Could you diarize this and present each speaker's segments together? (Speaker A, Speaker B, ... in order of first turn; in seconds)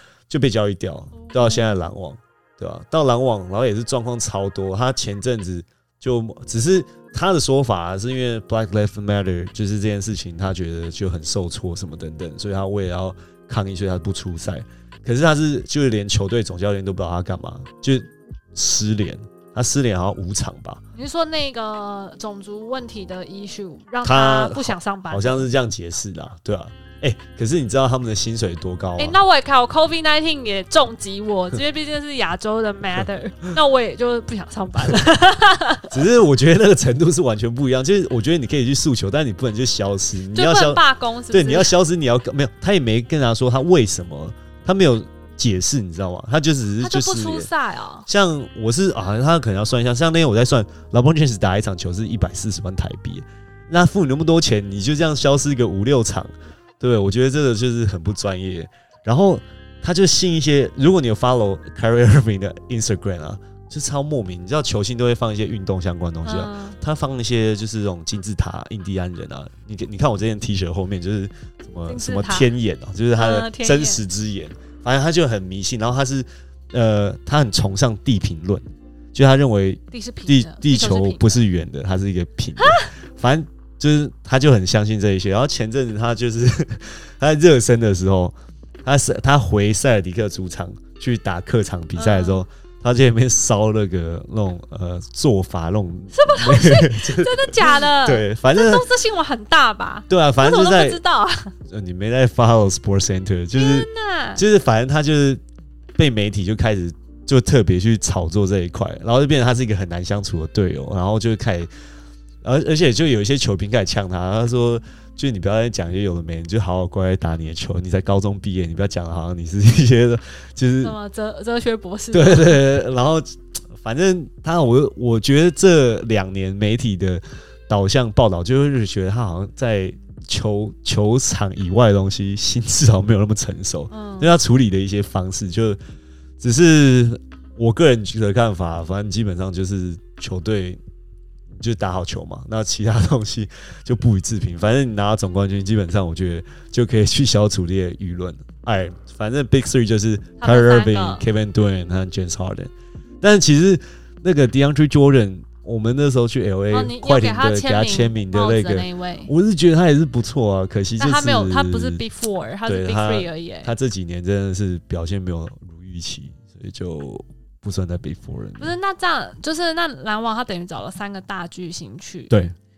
Speaker A: 0.3-20.8, 24.0-29.2, 35.9-47.5, 48.1-98.9, 100.1-101.0, 101.7-105.4, 106.0-111.7, 112.4-121.0, 122.1-135.8, 136.4-140.8, 141.5-162.0, 162.7-168.8
Speaker B: 1.3-1.7, 20.9-25.5, 29.0-36.0, 40.3-41.7, 46.8-48.1, 66.2-66.8, 71.9-72.5, 73.2-74.0, 79.9-81.5, 82.6-82.9, 92.0-92.4, 96.1-101.5, 103.5-104.4, 120.8-122.6, 133.9-134.3, 150.4-151.3, 156.7-159.3, 161.0-163.7, 168.6-172.3